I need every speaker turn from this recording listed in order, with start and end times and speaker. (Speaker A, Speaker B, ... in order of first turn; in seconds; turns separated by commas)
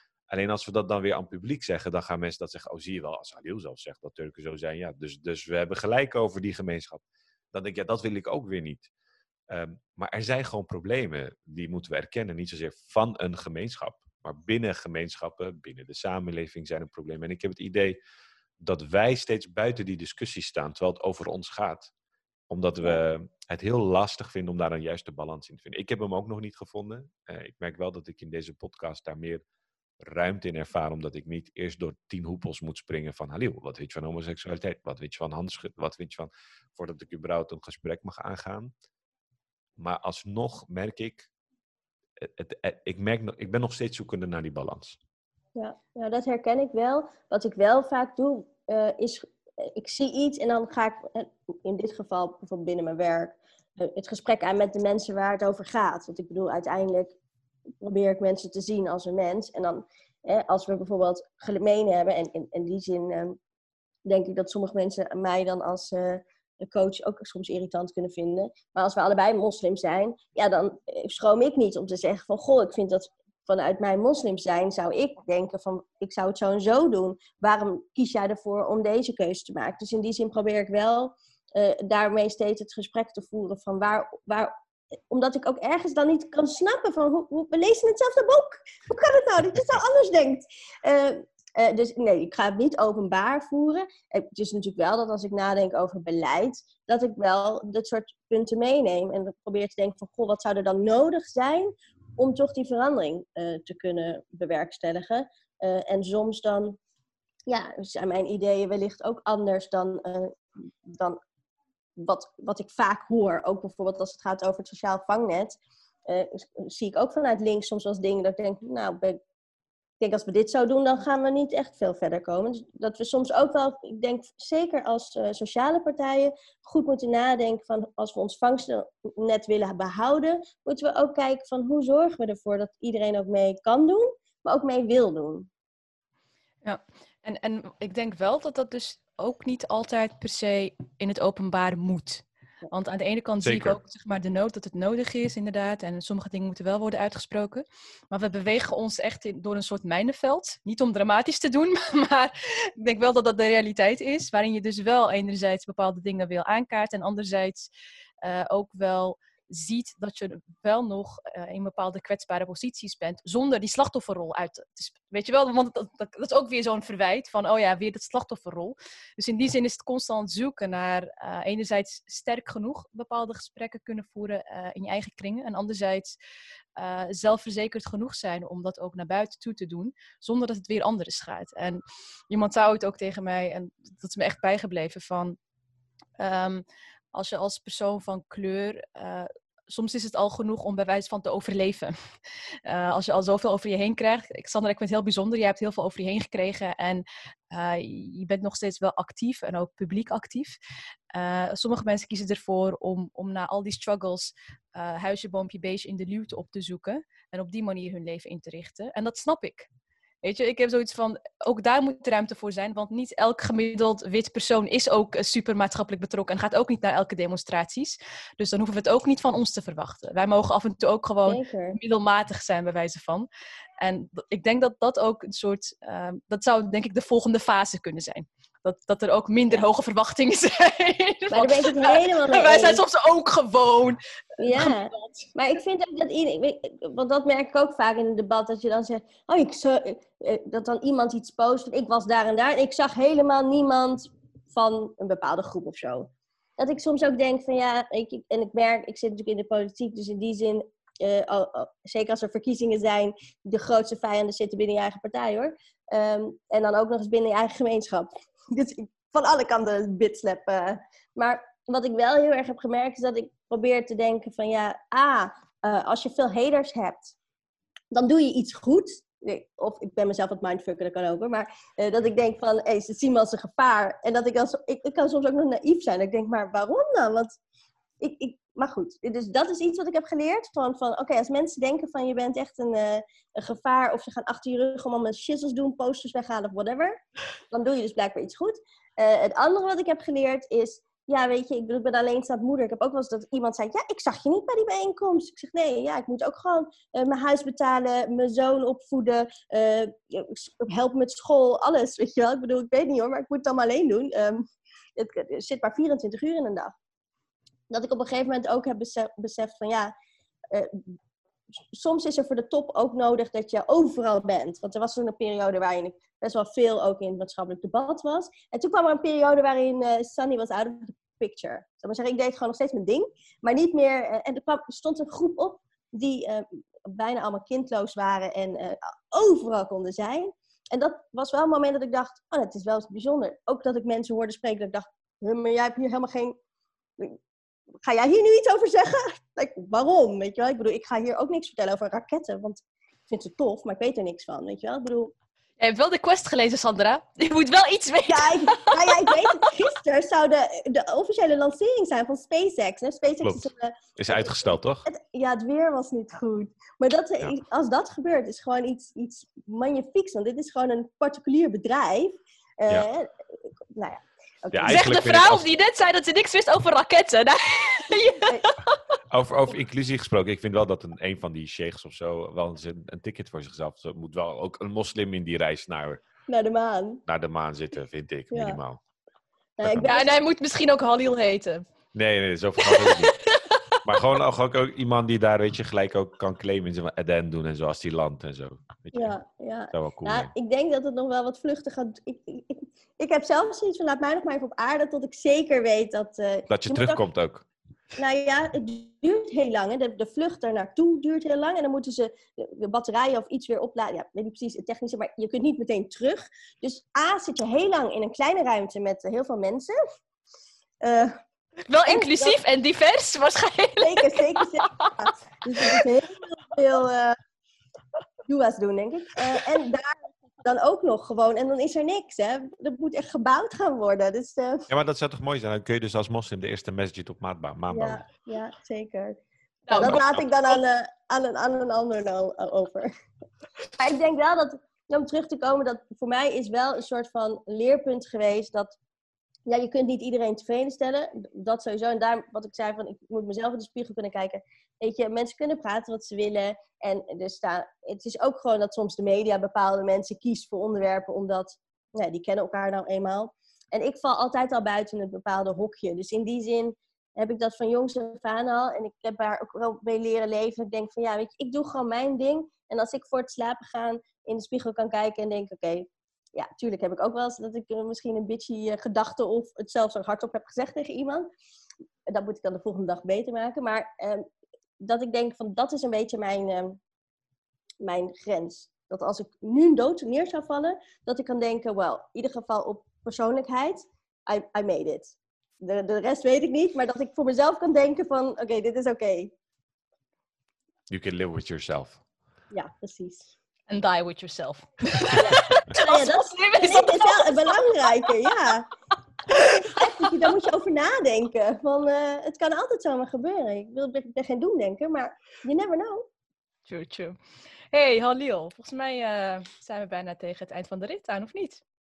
Speaker A: 0.3-8.9, Speaker A: 9.5-18.0, Speaker A: 18.6-21.9, Speaker A: 22.5-29.4, Speaker A: 30.0-38.7, Speaker A: 39.8-41.3, Speaker A: 42.2-45.0, Speaker B: 45.5-57.1, Speaker B: 57.8-63.4, Speaker B: 64.0-84.5, Speaker B: 85.1-106.8, Speaker B: 107.5-111.2, Speaker B: 112.0-119.2, Speaker B: 120.0-135.5, Speaker C: 136.6-157.7, Speaker A: 143.4-143.8, Speaker C: 158.2-176.1, Speaker C: 176.8-185.4, Speaker C: 186.2-191.9, Speaker C: 192.7-200.6, Speaker C: 201.1-209.7, Speaker C: 210.2-223.3, Speaker B: 221.3-221.8, Speaker C: 223.8-235.2, Speaker B: 231.3-232.8, Speaker B: 234.4-267.1, Speaker B: 267.9-277.4, Speaker B: 278.0-286.9, Speaker B: 287.5-304.4, Speaker B: 304.9-306.7, Speaker B: 307.7-309.9, Speaker B: 310.5-310.8, Speaker B: 311.7-336.4, Speaker B: 337.8-345.1, Speaker C: 345.6-349.6, Speaker B: 348.1-363.1, Speaker A: 353.2-354.9, Speaker B: 363.7-364.9, Speaker A: 364.5-365.5, Speaker C: 364.7-368.8, Speaker A: 369.1-376.0, Speaker B: 376.3-377.0, Speaker A: 377.1-378.8, Speaker B: 378.3-378.6, Speaker B: 379.6-380.1, Speaker A: 379.6-379.9, Speaker C: 379.8-381.6, Speaker A: 381.9-383.1, Speaker C: 382.6-383.8, Speaker A: 383.8-389.1, Speaker B: 388.9-397.0, Speaker A: 389.7-390.3, Speaker A: 396.5-397.4, Speaker B: 397.9-409.8, Speaker B: 410.8-411.1, Speaker C: 411.7-414.9, Speaker B: 411.9-412.4, Speaker B: 413.8-417.2, Speaker C: 415.6-415.9, Speaker B: 418.3-424.7, Speaker A: 424.7-428.1, Speaker B: 427.7-429.1, Speaker C: 429.7-430.0, Speaker B: 429.7-432.9, Speaker A: 429.8-430.2, Speaker B: 433.8-438.8, Speaker B: 439.5-471.3, Speaker B: 472.1-474.3, Speaker B: 474.8-476.8, Speaker B: 477.8-489.3, Speaker A: 490.9-492.0, Speaker B: 492.5-493.3, Speaker C: 493.7-498.5, Speaker B: 495.1-498.7, Speaker C: 499.3-500.1, Speaker B: 499.3-506.1, Speaker C: 506.6-507.2, Speaker C: 507.7-511.6